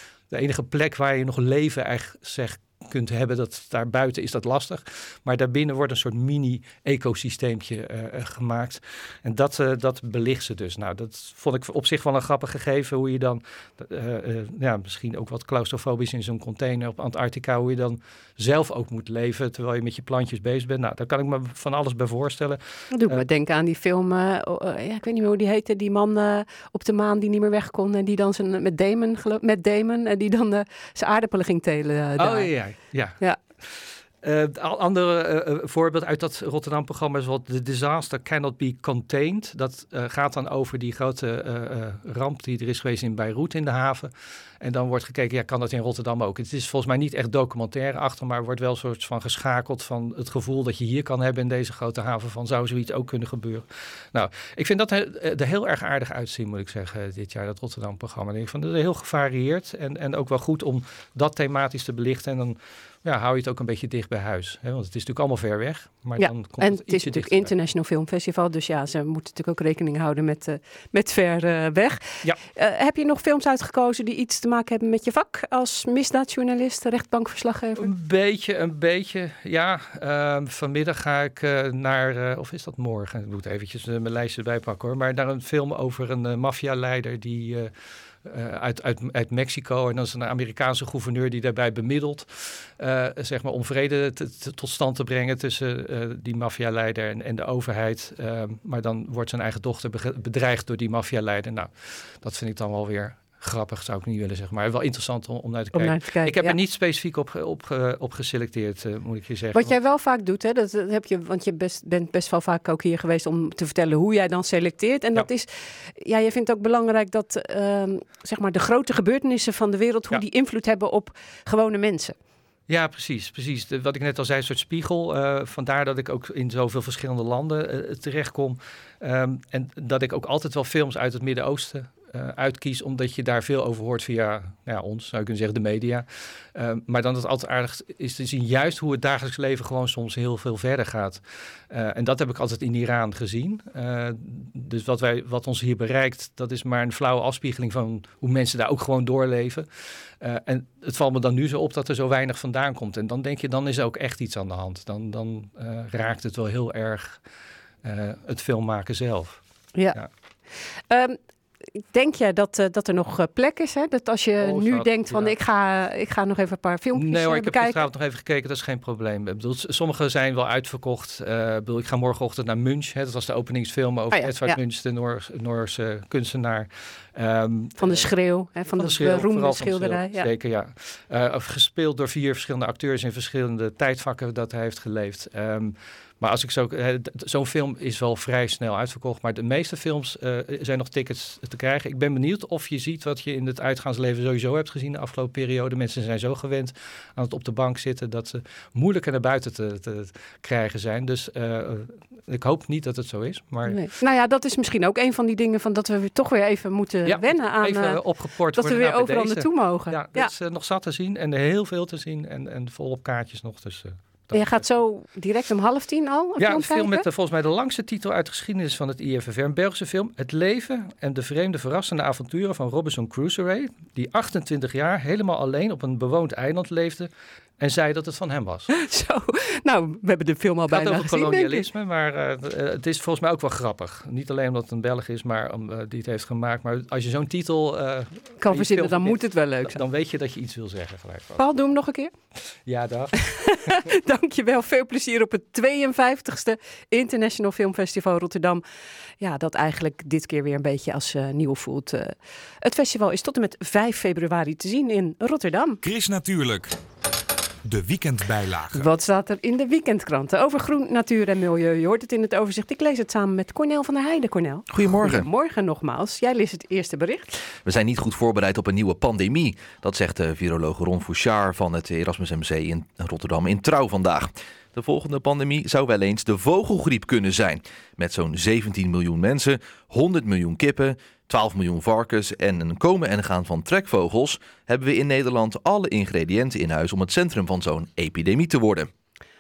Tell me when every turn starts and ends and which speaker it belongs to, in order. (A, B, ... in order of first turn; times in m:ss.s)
0:00.3-0:23.2 A
0:22.9-0:32.5 B
0:32.2-1:07.5 A
1:06.2-1:17.9 B
1:17.8-1:27.7 A
1:28.2-1:49.7 A
1:45.7-1:46.6 B
1:49.5-2:02.2 B
2:02.7-2:29.7 A
2:30.2-2:37.2 A
2:37.8-2:39.4 A
2:39.8-2:40.0 B
2:40.9-2:41.2 B
2:41.9-2:47.9 B
2:44.4-2:45.4 A
2:47.0-2:58.1 A
2:54.1-2:54.6 B
2:57.8-3:00.3 B
2:58.8-3:23.8 A
3:23.7-3:28.0 B
3:27.1-3:34.6 A
3:28.5-3:30.3 B
3:34.3-3:37.1 B
3:36.4-3:47.1 A
3:47.6-3:48.7 A
3:48.7-3:51.7 B
3:50.7-4:01.4 A
3:58.4-3:59.8 B
4:01.4-4:02.1 B
4:02.7-4:03.8 A
4:03.2-4:08.6 B
4:09.2-4:15.8 B
4:15.8-4:16.7 C
4:17.7-4:18.8 C
4:18.7-4:27.4 B
4:24.7-4:25.3 D
4:27.6-4:48.9 D